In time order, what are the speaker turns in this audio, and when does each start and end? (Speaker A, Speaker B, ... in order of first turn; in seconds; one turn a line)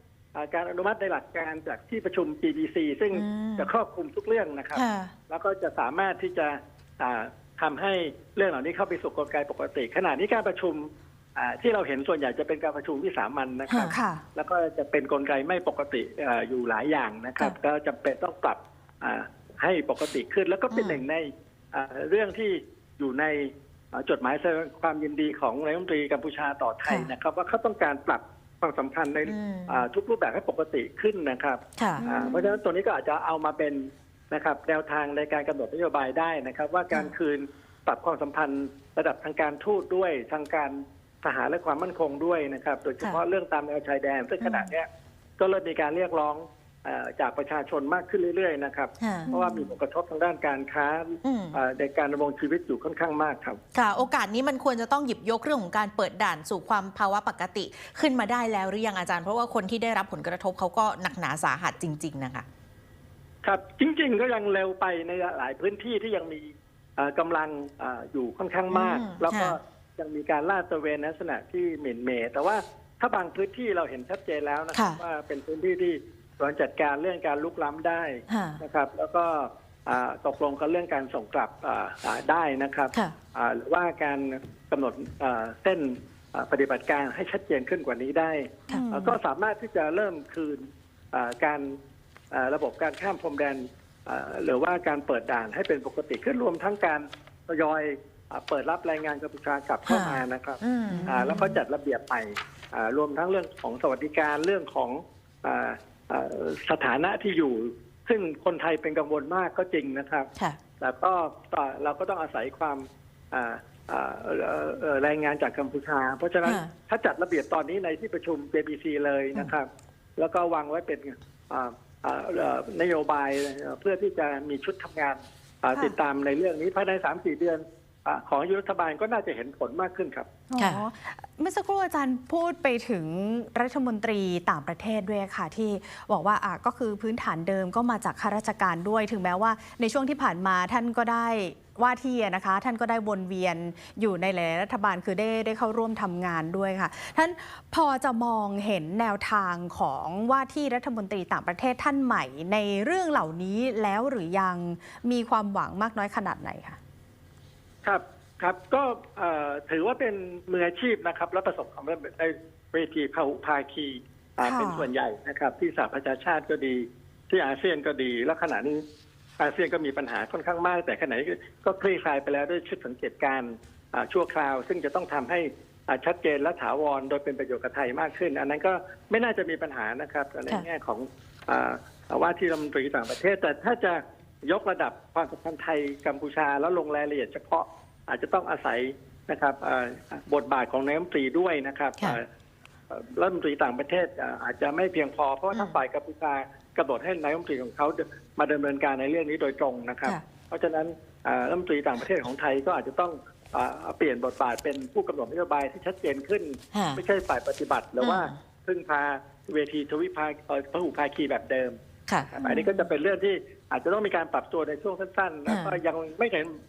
Speaker A: 0.3-53.6
Speaker B: 3.1-3.7
Speaker B: 4.7-5.1
Speaker B: 13.7-14.0
Speaker C: 13.9-14.2
Speaker B: 20.7-21.0
Speaker B: 26.9-27.1
Speaker B: 29.2-29.9
Speaker B: 31.8-32.1
Speaker C: 32.0-32.6
Speaker B: 44.4-44.7
Speaker B: 49.0-49.3
Speaker C: 49.3-49.7
Speaker B: 51.2-51.6
Speaker B: 53.7-62.5
Speaker A: 63.4-91.8
Speaker B: 68.7-69.6
Speaker B: 74.7-75.0
Speaker B: 78.3-78.6
Speaker C: 88.7-89.2
Speaker A: 92.3-130.3
Speaker B: 99.8-101.5
Speaker C: 100.9-101.6
Speaker B: 116.4-116.7
Speaker C: 130.5-156.8
Speaker B: 130.6-130.8
Speaker A: 157.8-168.8
Speaker C: 164.4-164.9
Speaker A: 169.4-192.3
Speaker A: 192.9-211.8
Speaker B: 195.5-195.8
Speaker B: 206.7-207.0
Speaker B: 208.0-208.3
Speaker B: 212.1-212.8
Speaker A: 212.3-216.6
Speaker B: 215.5-215.8